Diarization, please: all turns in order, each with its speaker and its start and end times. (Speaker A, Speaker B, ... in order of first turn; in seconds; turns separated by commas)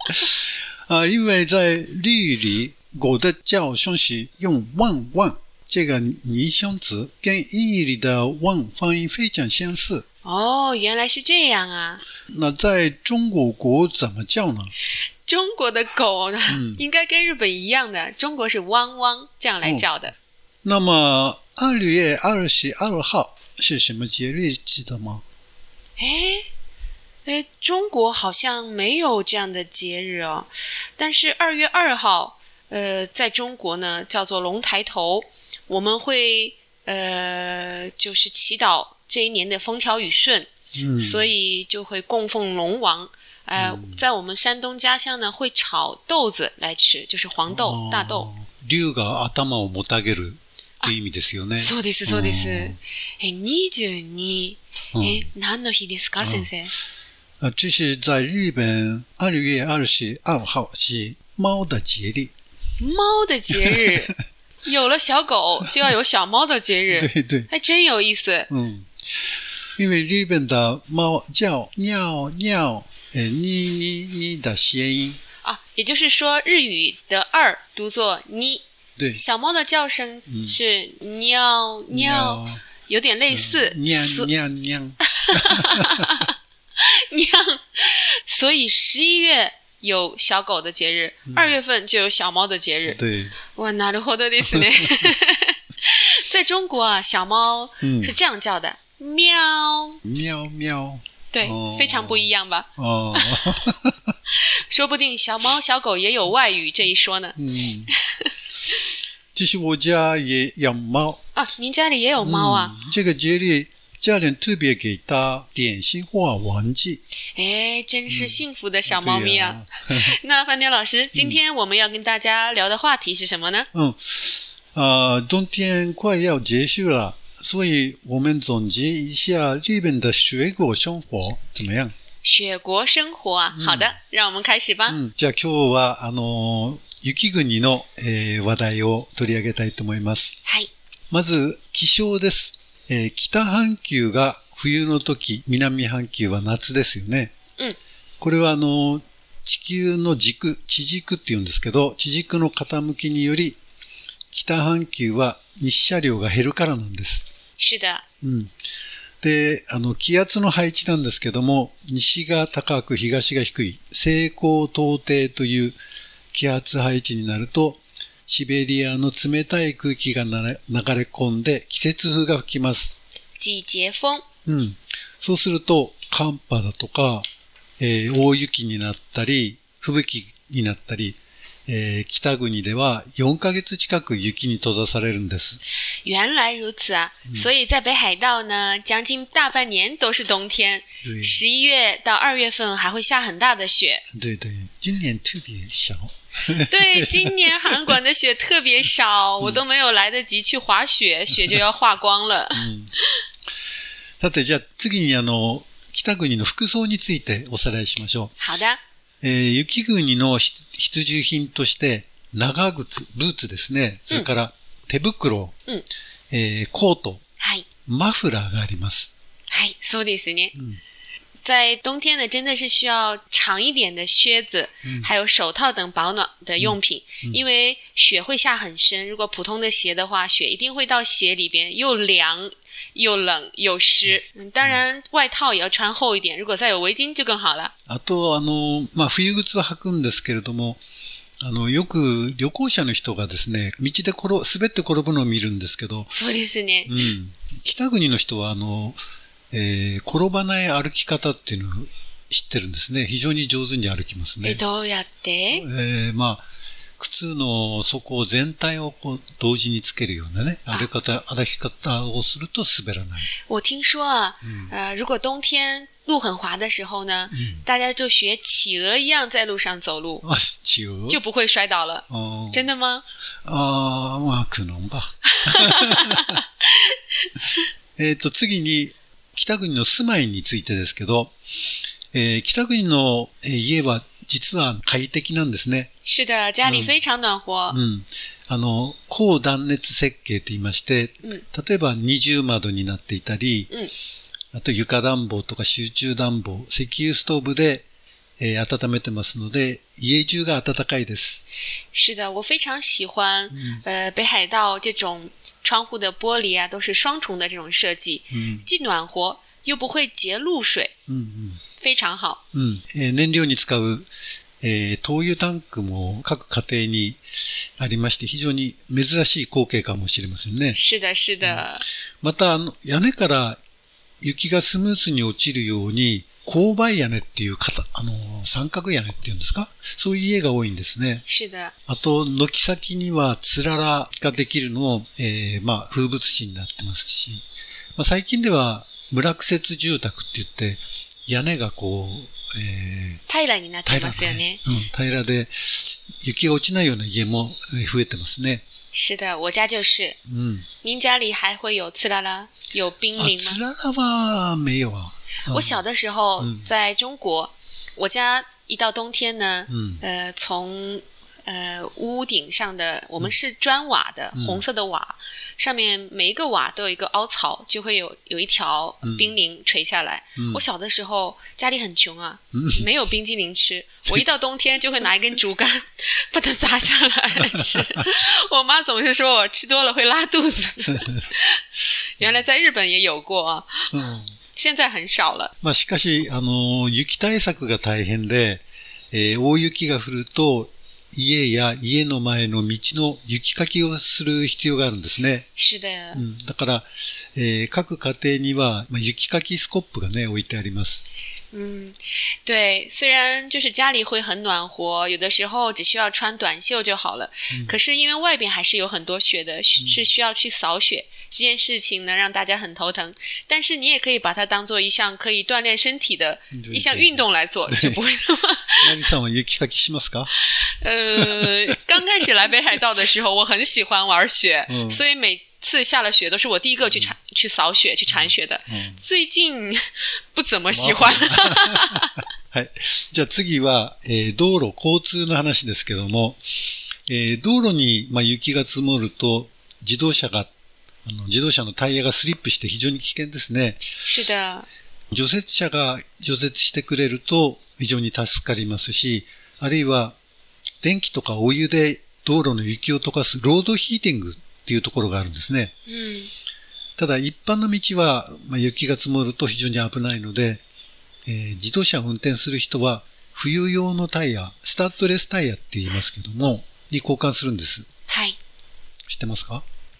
Speaker A: 0.2-10.0, Speaker B: 10.2-12.0, Speaker A: 12.3-14.7, Speaker B: 15.2-20.1, Speaker A: 16.5-16.8, Speaker A: 19.6-19.9, Speaker A: 20.6-25.2, Speaker B: 26.0-26.5, Speaker B: 27.2-48.3, Speaker A: 40.7-41.3, Speaker A: 43.5-44.1, Speaker A: 47.5-52.8, Speaker B: 51.6-56.7, Speaker A: 54.9-55.3, Speaker A: 56.2-56.5, Speaker A: 57.4-62.3, Speaker B: 62.8-64.1, Speaker A: 63.5-64.0, Speaker B: 64.6-68.5, Speaker A: 66.9-67.5, Speaker A: 68.5-68.9, Speaker A: 69.8-75.2, Speaker B: 75.4-84.3, Speaker A: 79.0-79.2, Speaker A: 80.3-80.6, Speaker A: 81.9-82.6, Speaker A: 83.3-86.2, Speaker B: 85.0-93.0, Speaker A: 91.3-91.5, Speaker A: 92.9-93.3, Speaker B: 93.5-100.0, Speaker A: 94.5-95.1, Speaker A: 97.8-98.2, Speaker A: 100.0-104.1, Speaker B: 101.3-103.6, Speaker B: 104.3-107.4, Speaker A: 107.3-107.9, Speaker B: 108.0-108.3, Speaker A: 109.3-111.2, Speaker B: 111.3-112.7, Speaker A: 112.2-117.0, Speaker B: 117.3-123.7, Speaker A: 118.1-120.2, Speaker A: 121.1-121.4, Speaker A: 123.7-131.9, Speaker B: 132.2-135.0, Speaker A: 133.5-133.9, Speaker A: 134.9-140.3, Speaker B: 140.4-140.7, Speaker A: 141.1-147.3, Speaker A: 148.2-153.6, Speaker A: 154.3-157.3, Speaker B: 157.6-158.0, Speaker A: 158.2-158.5, Speaker A: 159.2-165.8, Speaker A: 166.3-172.9, Speaker B: 173.4-174.2, Speaker A: 174.4-177.2, Speaker A: 177.8-185.6, Speaker B: 186.0-194.0, Speaker A: 191.0-191.4, Speaker A: 194.1-198.0, Speaker B: 196.6-202.7, Speaker A: 202.5-202.9, Speaker A: 204.2-208.3, Speaker B: 208.4-208.8, Speaker A: 209.2-215.5, Speaker A: 216.3-217.2, Speaker B: 217.4-217.7, Speaker A: 217.8-219.1, Speaker B: 219.5-220.5, Speaker A: 220.5-220.8, Speaker B: 221.4-237.7, Speaker A: 224.8-225.1, Speaker A: 226.6-227.4, Speaker A: 237.9-240.8, Speaker A: 241.4-246.1, Speaker B: 246.1-247.0, Speaker A: 246.8-249.0, Speaker A: 249.5-254.6, Speaker B: 254.4-255.7, Speaker A: 255.5-256.4, Speaker A: 257.0-263.3, Speaker B: 263.5-270.2, Speaker A: 264.4-264.7, Speaker A: 267.3-267.6, Speaker A: 270.2-271.2, Speaker B: 271.1-273.0, Speaker A: 272.1-272.7, Speaker A: 273.4-276.4, Speaker B: 275.3-277.0, Speaker A: 278.0-281.4, Speaker A: 282.1-285.9, Speaker B: 286.0-287.8, Speaker A: 286.6-286.9, Speaker A: 287.7-293.7, Speaker A: 294.5-297.9, Speaker A: 298.4-301.4, Speaker B: 301.9-310.9, Speaker A: 303.5-303.8, Speaker A: 308.3-308.7, Speaker A: 311.1-311.6, Speaker B: 311.8-312.4, Speaker A: 312.5-314.1, Speaker A: 314.6-317.2, Speaker A: 317.8-320.8, Speaker B: 320.7-321.8, Speaker A: 322.2-323.6, Speaker A: 324.2-331.2, Speaker B: 331.2-331.7, Speaker A: 331.9-337.4, Speaker A: 337.9-343.2, Speaker B: 343.3-344.6, Speaker A: 343.9-348.6, Speaker B: 348.9-350.2, Speaker A: 350.2-350.7, Speaker B: 350.8-353.6, Speaker A: 353.2-355.8, Speaker B: 355.5-381.6, Speaker A: 356.4-356.7, Speaker A: 359.7-360.0, Speaker A: 364.3-364.6, Speaker A: 369.0-369.3, Speaker A: 370.4-370.6, Speaker A: 372.5-372.9, Speaker A: 377.5-377.8, Speaker A: 380.9-381.2, Speaker B: 382.2-383.9, Speaker A: 383.9-384.3, Speaker B: 384.5-385.5, Speaker A: 385.6-395.4, Speaker B: 395.6-396.2, Speaker A: 396.1-401.1, Speaker B: 401.5-418.9, Speaker A: 407.5-407.8, Speaker A: 409.8-410.1, Speaker A: 416.5-418.0, Speaker A: 418.8-420.3, Speaker B: 420.4-432.1, Speaker A: 421.1-421.8, Speaker A: 424.7-425.0, Speaker A: 426.9-427.1, Speaker A: 428.1-429.0, Speaker A: 430.7-440.5, Speaker A: 441.0-443.9, Speaker B: 444.1-444.7, Speaker A: 445.1-450.1, Speaker A: 450.8-455.7, Speaker B: 455.9-456.3, Speaker A: 457.0-460.6, Speaker A: 461.2-467.9, Speaker B: 468.1-468.4, Speaker A: 469.1-469.6